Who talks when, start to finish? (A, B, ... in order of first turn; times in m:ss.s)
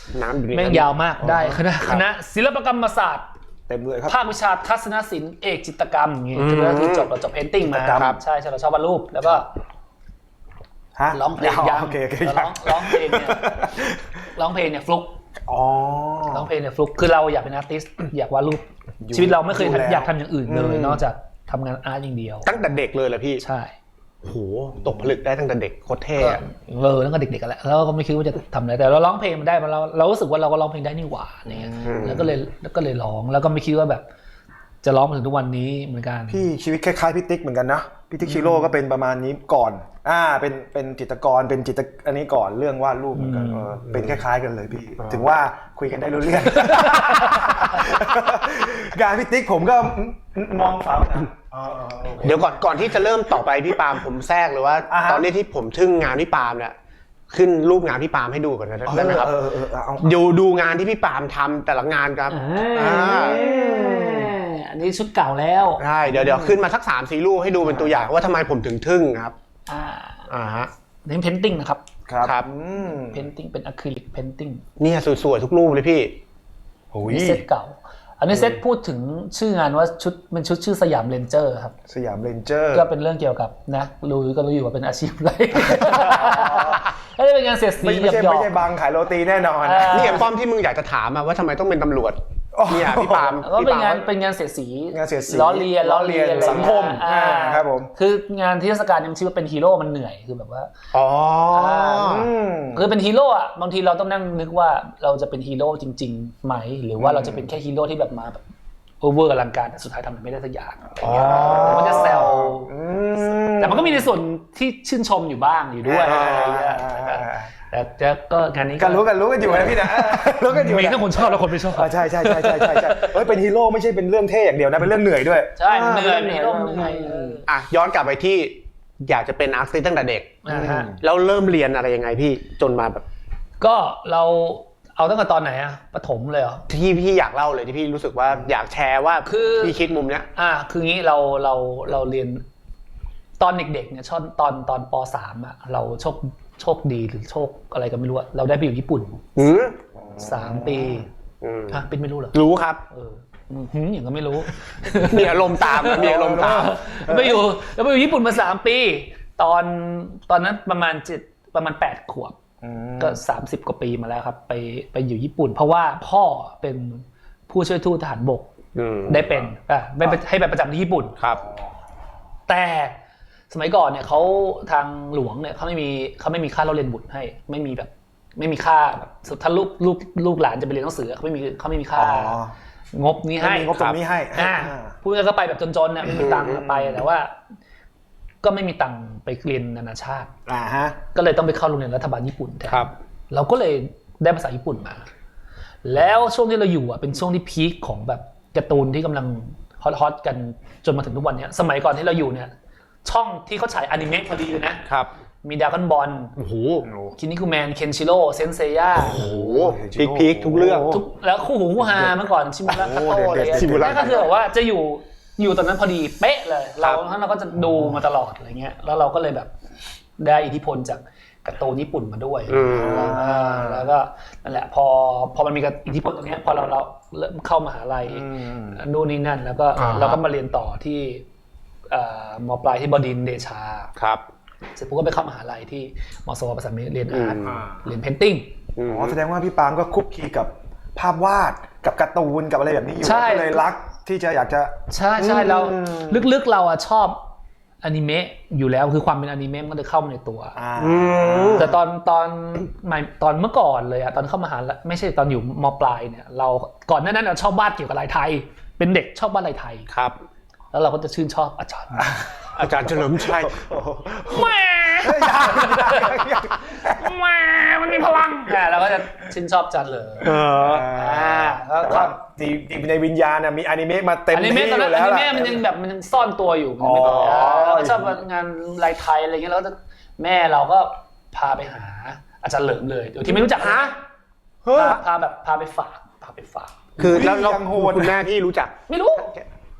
0:00.1-0:00.9 A
0:00.5-0:03.3 B
0:01.2-0:01.6 C
0:01.8-0:02.0 A
0:03.7-0:04.2 C
0:04.1-0:09.5 B
0:06.4-0:07.1 A
0:07.6-0:08.2 C
0:07.9-0:08.2 A
0:11.0-0:14.1 C
0:11.1-0:13.8 B
0:14.4-0:15.2 B
0:15.5-0:16.5 C
0:16.3-0:22.6 B
0:19.0-0:21.0 C
0:22.4-0:23.4 A
0:23.4-0:23.7 B
0:24.2-0:26.4 A
0:26.2-0:34.0 B
0:31.5-0:32.2 C
0:31.8-0:32.3 A
0:34.8-0:36.5 B
0:36.3-0:53.1 C
0:43.2-0:43.8 B
0:46.8-0:47.6 B
0:52.2-0:56.8 A
0:54.9-0:55.3 C
0:57.3-0:59.3 A
0:58.9-1:00.1 C
1:00.0-1:03.4 A
1:02.3-1:05.8 B
1:02.7-1:04.4 C
1:05.8-1:09.3 A
1:06.1-1:06.6 C
1:07.6-1:08.0 C
1:09.7-1:10.3 B
1:10.3-1:10.7 A
1:11.0-1:11.8 B
1:12.1-1:13.2 C
1:12.2-1:12.5 A
1:12.8-1:14.6 B
1:14.8-1:16.1 A
1:16.9-1:17.4 C
1:17.1-1:21.8 B
1:21.9-1:22.9 C
1:22.7-1:28.6 B
1:25.6-1:26.8 C
1:27.8-1:30.3 C
1:29.6-1:30.3 B
1:29.9-1:34.1 A
1:32.5-1:33.4 C
1:33.4-1:40.7 B
1:34.9-1:37.9 C
1:36.4-1:36.8 A
1:40.9-1:42.3 A
1:41.5-1:48.4 B
1:42.0-1:42.9 C
1:47.0-1:47.4 C
1:49.0-1:52.7 B
1:51.0-1:52.1 A
1:51.0-1:54.1 C
1:53.6-2:03.1 B
1:55.8-1:57.5 C
1:56.0-1:56.6 A
1:58.8-2:07.4 C
2:05.6-2:07.5 B
2:07.5-2:10.4 A
2:10.4-2:11.0 B
2:10.5-2:11.0 C
2:11.0-2:13.0 A
2:13.6-2:16.6 B
2:16.7-2:20.3 A
2:19.2-2:19.8 B
2:20.3-2:22.4 B
2:23.4-2:29.4 B
2:29.4-2:29.8 A
2:30.0-2:31.0 C
2:30.2-2:31.1 B
2:31.4-2:31.8 A
2:31.7-2:32.4 B
2:32.3-2:32.8 A
2:32.9-2:42.4 B
2:35.0-2:36.8 A
2:35.8-2:37.5 C
2:42.6-2:43.2 C
2:43.0-2:48.5 B
2:48.8-2:49.4 A
2:49.1-2:51.2 B
2:52.5-2:53.0 B
2:53.5-3:02.4 B
3:01.9-3:02.5 C
3:02.9-3:07.4 B
3:03.4-3:05.0 C
3:06.1-3:07.0 C
3:06.1-3:06.6 A
3:08.4-3:10.3 B
3:10.5-3:11.0 C
3:11.1-3:15.1 B
3:15.8-3:22.5 B
3:23.0-3:24.8 B
3:25.4-3:26.4 B
3:26.4-3:26.9 A
3:26.8-3:27.2 C
3:27.2-3:29.3 B
3:29.0-3:31.0 A
3:29.1-3:31.0 C
3:30.9-3:39.5 B
3:32.7-3:34.3 C
3:33.0-3:34.3 A
3:40.2-3:51.2 B
3:42.5-3:43.2 A
3:42.7-3:43.9 C
3:48.1-3:48.8 C
3:49.8-3:50.2 A
3:51.9-3:53.9 B
3:54.8-3:58.5 B
3:57.1-3:57.6 A
3:57.5-3:57.8 C
3:58.8-3:59.2 A
3:58.9-4:06.2 C
4:03.0-4:03.7 B
4:04.9-4:07.2 B
4:07.8-4:10.6 B
4:10.6-4:11.8 C
4:10.8-4:11.7 A
4:11.5-4:19.9 B
4:19.9-4:20.2 A
4:20.7-4:22.2 B
4:22.0-4:27.2 C
4:22.6-4:23.7 A
4:24.2-4:32.2 B
4:27.9-4:28.6 C
4:30.2-4:30.9 A
4:30.5-4:35.7 C
4:34.3-4:44.0 B
4:36.8-4:38.2 C
4:37.0-4:37.8 A
4:43.3-4:44.0 A
4:44.6-4:45.0 C
4:44.7-4:46.8 B
4:47.0-4:48.2 C
4:47.0-4:49.4 A
4:48.9-4:49.4 B